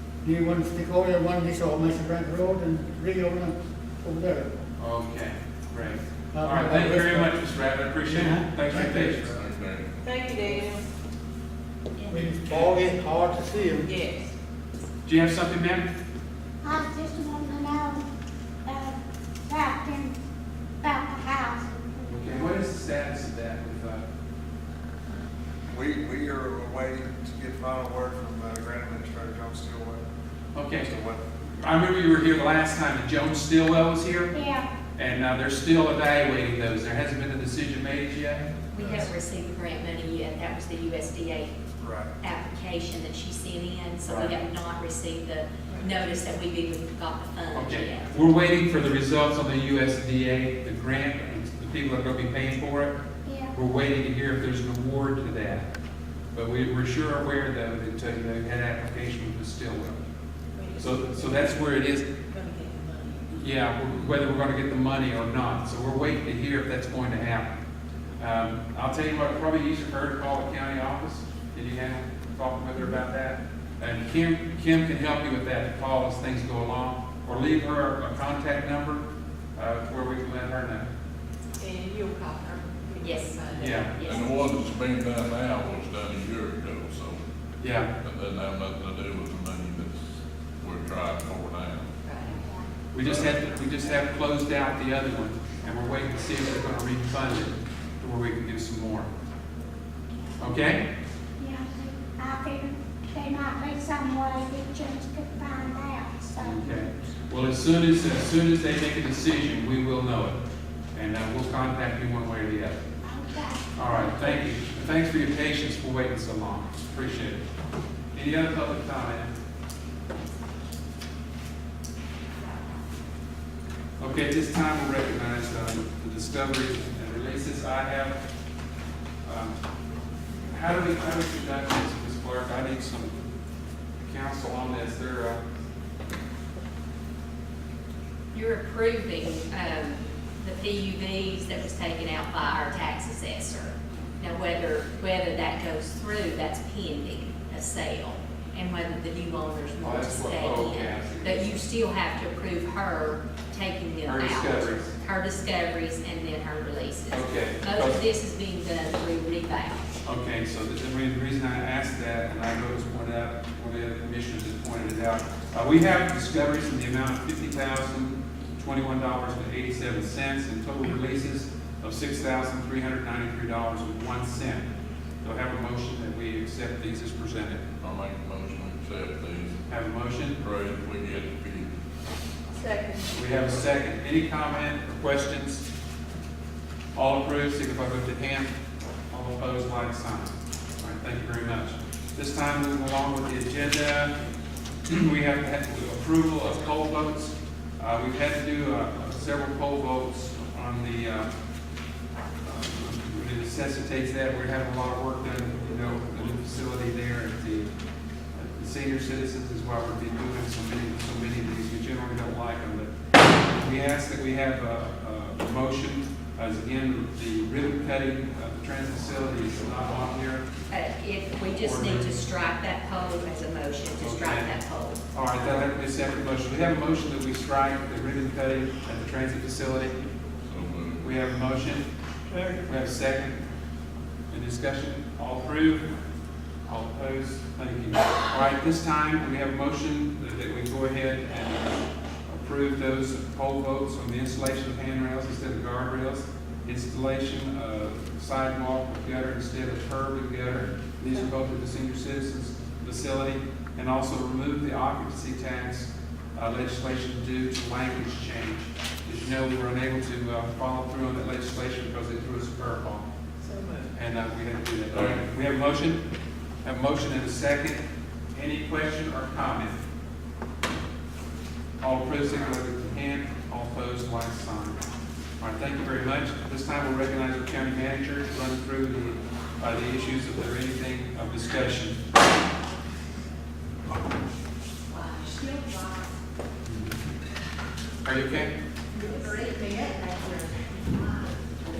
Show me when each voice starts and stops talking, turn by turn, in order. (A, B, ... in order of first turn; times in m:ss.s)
0:00.2-0:04.5 A
0:04.8-0:09.4 B
0:06.3-0:07.4 A
0:08.0-0:09.2 A
0:09.2-0:09.9 C
0:10.0-0:10.8 D
0:12.1-0:13.9 A
0:13.8-0:14.3 D
0:15.0-0:15.9 B
0:16.6-0:18.0 E
0:18.6-0:19.0 E
0:19.5-0:20.2 E
0:20.8-0:21.8 E
0:22.0-0:24.0 B
0:25.7-0:30.0 F
0:30.5-0:30.9 B
0:30.8-0:31.2 F
0:31.6-0:34.4 B
0:34.3-0:34.7 E
0:35.0-0:38.5 B
0:38.7-0:41.5 G
0:41.8-0:42.1 F
0:42.2-0:48.1 G
0:44.1-0:44.3 B
0:47.5-0:52.9 B
0:53.2-0:53.5 E
0:53.5-0:55.7 B
0:56.3-1:00.0 B
1:00.6-1:01.5 D
1:00.8-1:02.1 B
1:02.3-1:03.4 D
1:03.3-1:07.5 B
1:08.2-1:19.0 B
1:19.6-1:20.9 B
1:21.6-1:24.1 D
1:23.0-1:24.3 G
1:23.5-1:23.9 B
1:24.0-1:27.2 C
1:27.6-1:27.9 B
1:28.0-1:31.9 C
1:32.0-1:32.4 G
1:32.9-1:39.1 B
1:40.4-1:40.8 B
1:41.4-1:46.8 E
1:46.4-1:50.4 B
1:50.9-1:52.8 B
1:53.0-1:53.6 E
1:53.8-1:57.4 B
1:58.1-1:59.3 B
2:04.0-2:08.2 B
2:09.2-2:09.6 B
2:10.5-2:13.1 B
2:14.0-2:15.4 B
2:18.3-2:39.8 G
2:29.8-2:31.7 B
2:34.0-2:34.9 B
2:37.1-2:38.0 B
2:40.0-2:54.6 B
2:55.2-2:57.6 B
2:57.8-2:59.6 C
2:59.7-3:00.4 B
3:00.4-3:01.7 C
3:02.5-3:03.2 D
3:03.1-3:05.6 B
3:06.9-3:08.5 B
3:09.1-3:14.1 B
3:14.9-3:21.3 B
3:22.4-3:27.7 B
3:28.3-3:40.5 B
3:40.7-3:45.0 G
3:41.6-3:42.1 B
3:44.0-3:44.6 B
3:45.1-3:50.0 B
3:50.5-3:51.1 C
3:51.0-3:51.8 B
3:52.6-3:53.4 B
3:54.3-3:55.9 B
3:56.7-4:23.1 B
4:23.4-4:23.9 D
4:23.9-4:26.0 B
4:24.9-4:25.2 C
4:26.6-4:29.8 B
4:31.8-4:34.8 B
4:35.4-4:42.0 B
4:44.9-4:46.1 D
4:46.6-4:46.9 B
4:48.0-4:48.5 B
4:48.9-4:51.2 D
4:48.9-4:49.9 G